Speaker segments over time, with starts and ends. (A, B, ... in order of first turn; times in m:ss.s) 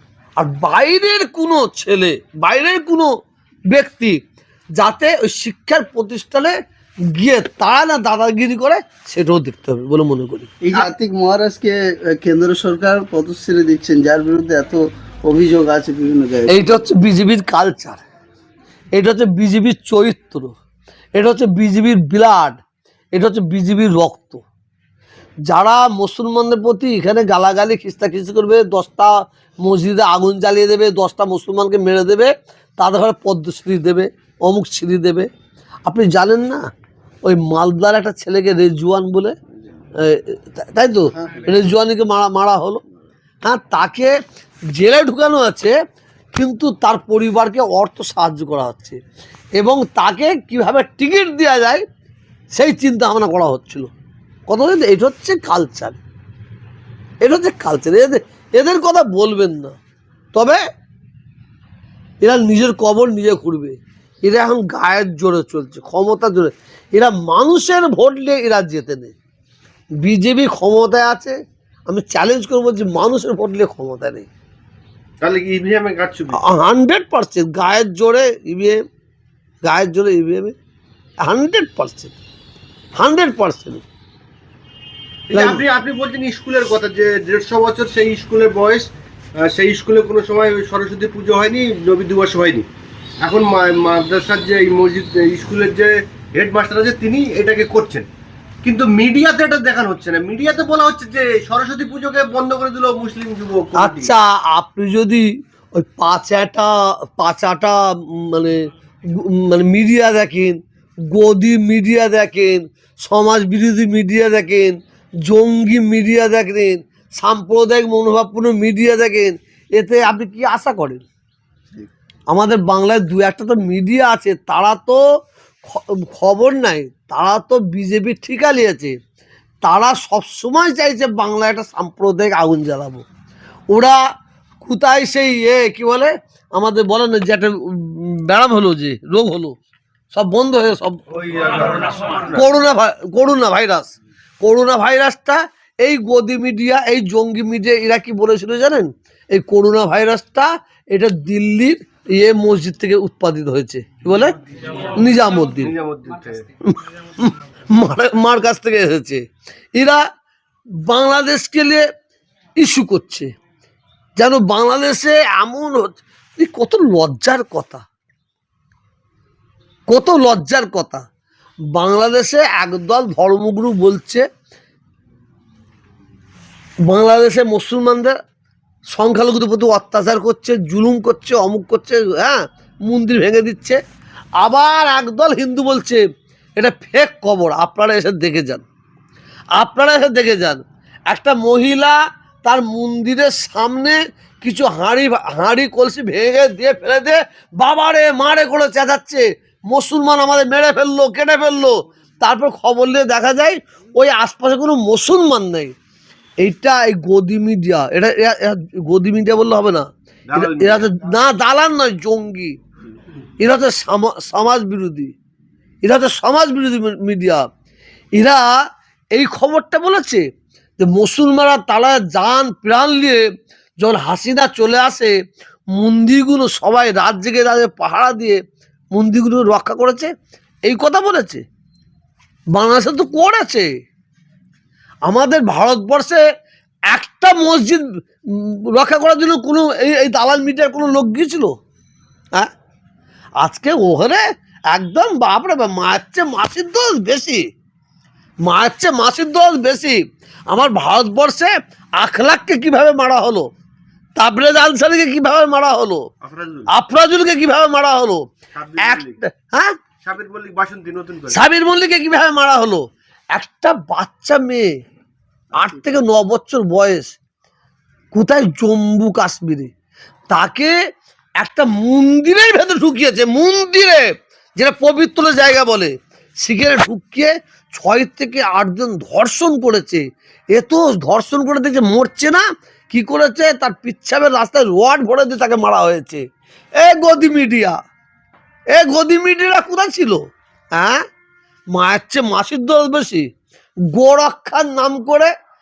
0:00.4-0:03.1 A
0:03.7-0:04.2 A
0:04.8-0:06.5 A
0:07.1-0:10.5 A
0:10.6-0:16.6 B
0:16.5-0:18.0 A
0:19.0-0:20.5 A
0:21.2-0:22.6 A
0:23.1-0:24.4 A
0:25.5-0:35.3 A
0:35.9-0:36.6 A
0:37.2-0:39.3 A
0:40.0-0:42.8 A
0:43.4-0:44.2 A
0:44.8-0:45.7 A
0:46.3-0:49.0 A
0:49.6-0:51.8 A
0:52.5-0:53.9 A
0:54.5-0:56.0 A
0:57.2-0:59.8 A
1:00.3-1:00.6 A
1:02.2-1:09.1 A
1:10.0-1:11.4 A
1:11.9-1:14.3 A
1:15.2-1:16.4 C
1:16.4-1:18.8 A
1:19.6-1:20.5 A
1:21.2-1:22.2 A
1:23.0-1:23.8 A
1:25.3-1:28.9 C
1:25.3-1:25.6 A
1:29.4-1:32.7 C
1:33.2-1:38.1 C
1:38.6-1:44.1 C
1:43.8-1:45.2 A
1:45.8-1:48.6 A
1:49.1-1:50.6 A
1:51.1-2:01.0 A
2:02.3-2:05.0 A
2:05.7-2:09.0 A
2:09.6-2:13.0 A
2:13.7-2:14.0 A
2:14.6-2:19.6 A
2:20.1-2:21.0 A
2:21.1-2:22.4 C
2:22.3-2:35.8 A
2:35.5-2:36.5 C
2:36.6-2:39.2 A
2:39.8-2:40.0 A
2:40.8-2:41.8 A
2:42.6-2:43.3 A
2:44.2-2:47.8 A
2:49.9-2:51.0 A
2:51.7-2:54.2 A
2:56.9-2:58.2 A
2:58.9-3:03.8 A
3:04.4-3:06.0 A
3:06.6-3:08.6 A
3:09.6-3:25.7 A
3:26.4-3:32.6 A
3:30.3-3:31.0 C
3:33.4-3:35.1 A
3:35.8-3:37.5 A
3:38.2-3:38.5 A
3:39.1-3:40.2 A
3:40.8-3:43.2 A
3:43.8-3:45.1 A
3:45.7-3:48.4 A
3:48.9-3:50.1 A
3:50.6-3:51.4 A
3:52.5-3:53.7 A
3:55.1-3:56.2 A
3:56.9-4:01.5 A
4:03.4-4:07.4 A
4:08.5-4:10.0 A
4:10.5-4:13.4 A
4:14.2-4:16.0 A
4:16.2-4:16.7 C
4:16.7-4:19.7 A
4:18.5-4:19.2 C
4:20.0-4:21.5 C
4:21.3-4:24.7 A
4:25.6-4:27.2 A
4:28.1-4:29.7 A
4:30.3-4:30.7 A
4:31.4-4:46.2 A
4:46.8-4:47.8 A
4:48.7-4:50.2 A
4:50.8-4:51.0 A
4:51.7-4:53.3 A
4:53.9-4:55.3 A